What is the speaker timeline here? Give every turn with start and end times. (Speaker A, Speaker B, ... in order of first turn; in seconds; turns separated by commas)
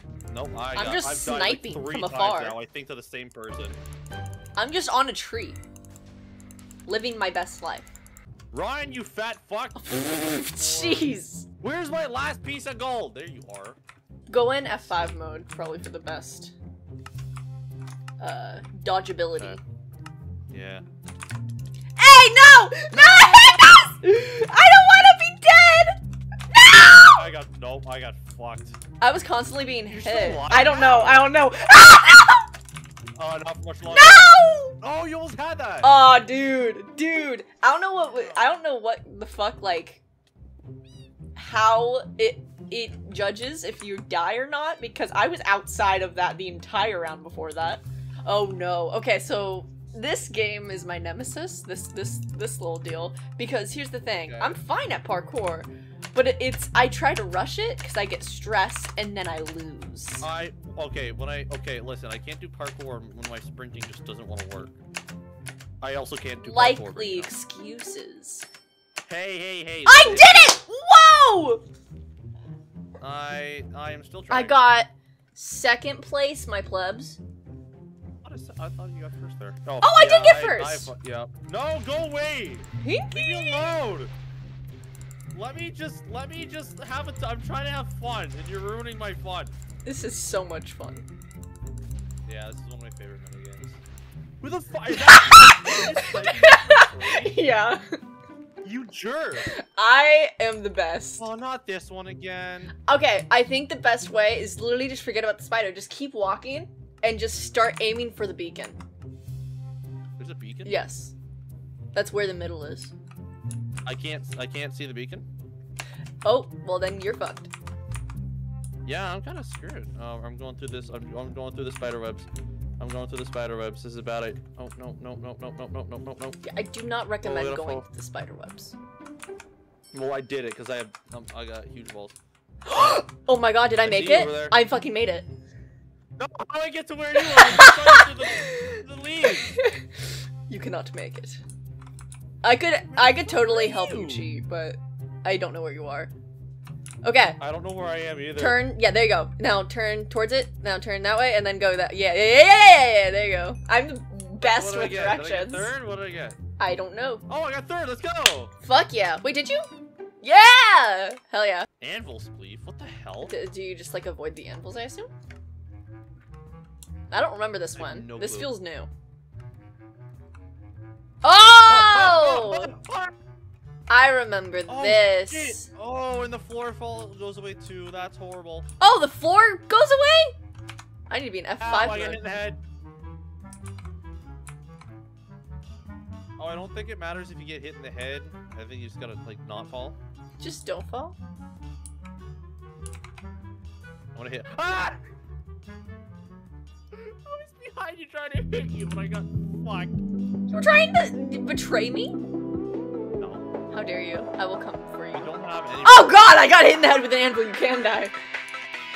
Speaker A: 0.3-3.8, Speaker B: 0.7-2.6, Speaker B: 4.6-5.6, Speaker B: 6.9-7.9, Speaker A: 8.5-13.8, Speaker B: 9.8-11.4, Speaker B: 14.3-16.5, Speaker B: 18.2-19.6, Speaker A: 20.5-20.9, Speaker B: 22.0-26.0, Speaker A: 22.9-23.8, Speaker B: 26.5-27.2, Speaker A: 26.7-28.8, Speaker B: 29.0-32.5, Speaker A: 29.9-31.4, Speaker A: 33.2-34.2, Speaker B: 33.9-34.8, Speaker A: 34.8-36.0, Speaker B: 35.8-40.0, Speaker A: 38.0-38.6, Speaker B: 41.4-60.3, Speaker A: 54.2-54.6, Speaker A: 60.2-64.7, Speaker A: 65.8-67.3, Speaker B: 66.4-68.5, Speaker A: 69.1-70.5, Speaker B: 69.9-71.6, Speaker A: 73.0-74.6, Speaker B: 74.3-77.2, Speaker A: 78.2-84.1, Speaker B: 79.8-80.9, Speaker B: 82.8-83.8, Speaker A: 85.3-89.5, Speaker B: 89.8-91.1, Speaker A: 92.2-93.8, Speaker A: 94.4-97.4, Speaker B: 94.9-98.0, Speaker A: 98.6-99.5, Speaker B: 99.4-101.3, Speaker A: 101.2-102.7, Speaker B: 102.9-108.8, Speaker A: 110.2-110.8, Speaker B: 110.7-111.1, Speaker B: 111.9-112.9, Speaker A: 113.8-115.2, Speaker B: 116.2-117.5, Speaker A: 118.9-122.3, Speaker A: 122.8-126.4, Speaker B: 126.4-128.8, Speaker A: 127.2-127.9, Speaker A: 129.9-132.2, Speaker B: 132.7-135.3, Speaker A: 133.8-134.6, Speaker A: 136.2-139.6, Speaker B: 137.2-139.9, Speaker B: 140.5-141.4, Speaker B: 142.4-146.1, Speaker A: 142.9-144.3, Speaker B: 147.0-147.4, Speaker A: 147.4-148.6, Speaker B: 148.4-155.8, Speaker A: 154.4-156.4, Speaker B: 156.6-157.2, Speaker A: 157.3-158.5, Speaker B: 158.6-159.7, Speaker B: 160.2-161.7, Speaker A: 161.8-163.3, Speaker B: 163.3-165.1, Speaker B: 167.1-168.9, Speaker A: 167.8-168.5, Speaker B: 171.2-172.7, Speaker A: 171.7-173.1, Speaker B: 173.9-175.7, Speaker A: 174.7-178.7, Speaker B: 178.8-180.3, Speaker B: 181.1-182.3, Speaker A: 181.6-182.6, Speaker A: 186.4-190.0, Speaker B: 190.4-191.2, Speaker A: 194.1-195.0, Speaker A: 196.9-200.0, Speaker B: 200.5-202.2, Speaker A: 203.2-203.5, Speaker B: 203.7-205.3, Speaker A: 205.1-206.3, Speaker B: 205.8-208.1